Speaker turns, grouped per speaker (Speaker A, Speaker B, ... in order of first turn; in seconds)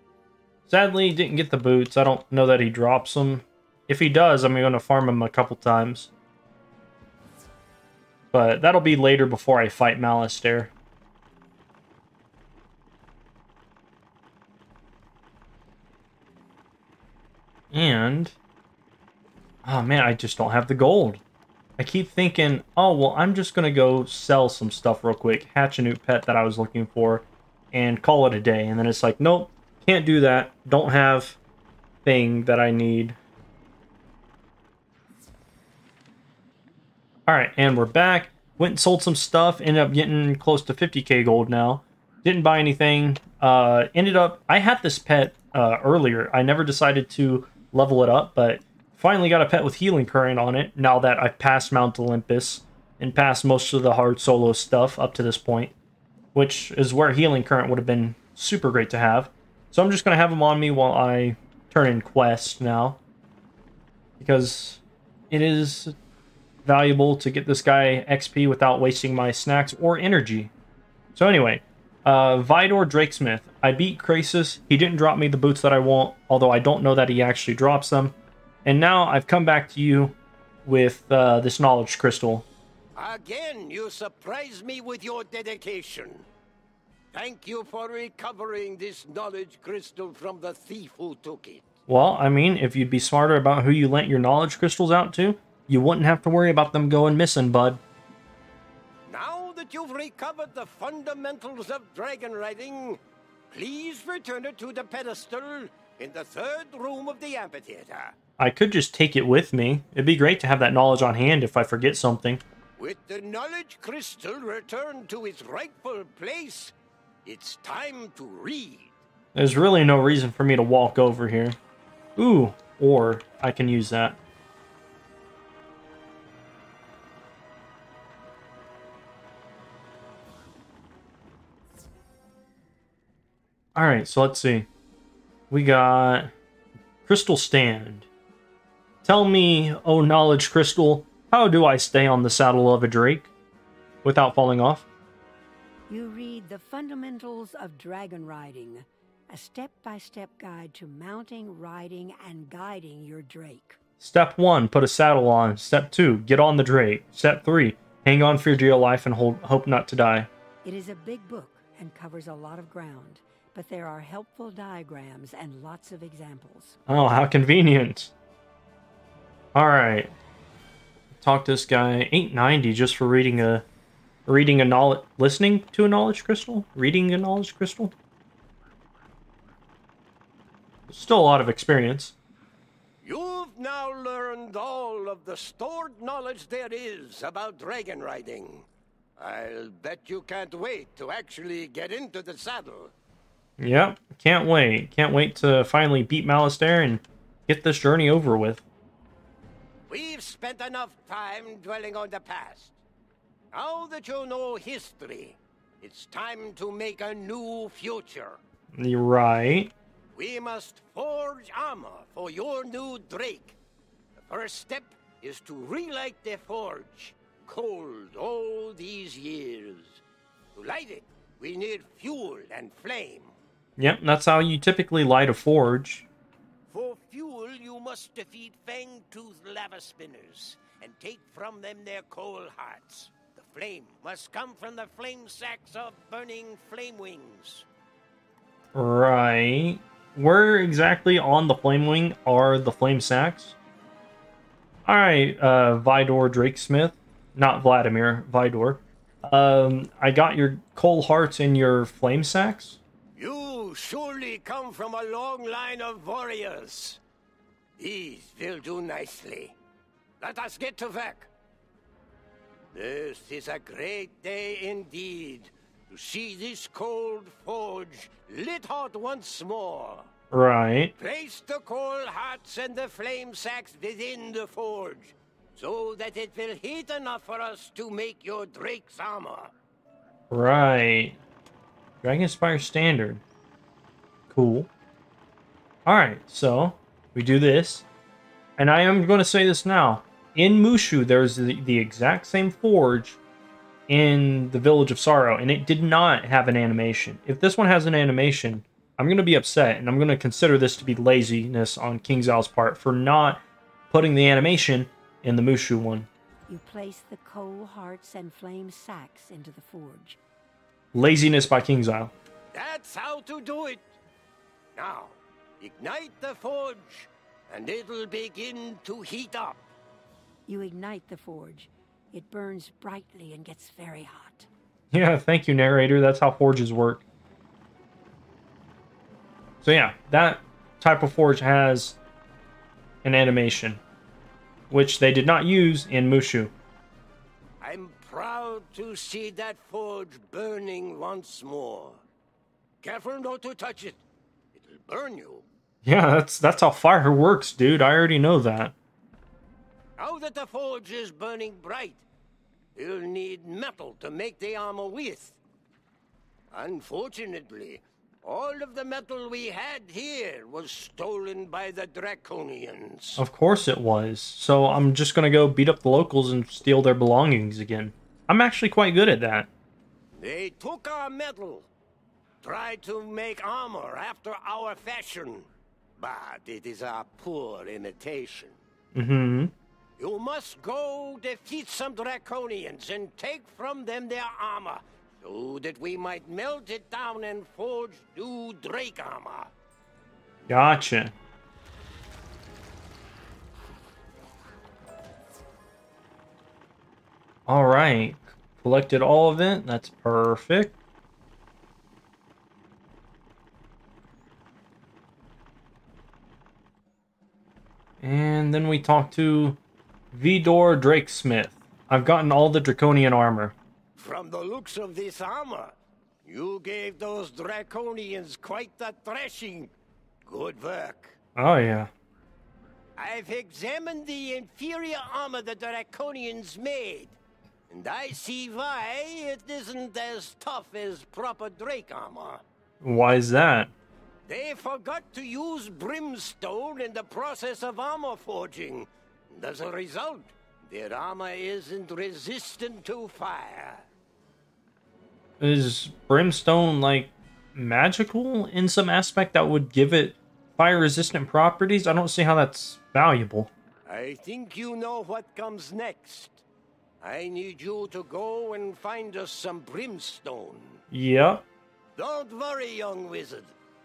Speaker A: 0.7-6.1, 8.3-10.7, 17.7-18.3, 19.6-21.2, 21.8-31.4, 32.0-33.2, 37.3-55.7, 56.3-63.0, 64.2-65.9, 66.6-70.5, 71.1-82.5, 91.9-97.8, 108.4-112.4, 119.3-121.6, 122.2-124.2, 133.7-134.7, 135.5-136.3, 137.1-138.1, 139.0-143.3, 144.0-144.9, 154.0-160.3, 166.9-168.1, 169.5-170.1, 171.2-173.6, 174.3-177.9, 180.9-182.1, 193.6-198.6, 208.7-209.7, 223.8-226.1, 238.7-243.6, 244.8-252.8, 270.3-270.9, 280.3-281.2, 282.0-283.2, 284.3-284.7, 285.9-287.8, 288.6-293.2, 293.9-306.1, 310.9-312.1, 324.9-327.0, 329.6-332.0, 333.0-333.8, 334.7-336.5, 345.8-348.7, 363.2-369.5, 378.9-379.5, 390.5-391.1, 397.5-400.7, 408.0-409.6, 410.1-413.5, 421.4-421.9, 432.8-433.7, 445.4-453.5, 460.9-461.4
Speaker B: 83.0-86.3, 87.1-91.7, 99.1-108.2, 112.8-119.0, 183.0-192.9, 199.9-202.8, 203.5-208.4, 210.1-213.6, 214.2-220.0, 220.5-223.3, 226.7-237.7, 253.2-257.0, 257.8-259.5, 260.2-261.3, 262.7-270.1, 271.0-279.5, 312.5-313.9, 314.7-319.6, 337.6-342.0, 342.8-344.0, 344.5-345.4, 350.0-352.0, 352.7-355.4, 356.5-363.2, 370.1-371.7, 372.4-378.6, 380.0-389.5, 413.9-419.7, 420.2-421.1, 423.0-427.1, 427.7-432.4, 434.2-443.8, 453.9-456.4, 457.0-460.8, 461.9-463.5
Speaker C: 145.9-153.8, 160.6-166.8, 306.5-310.2, 320.5-324.5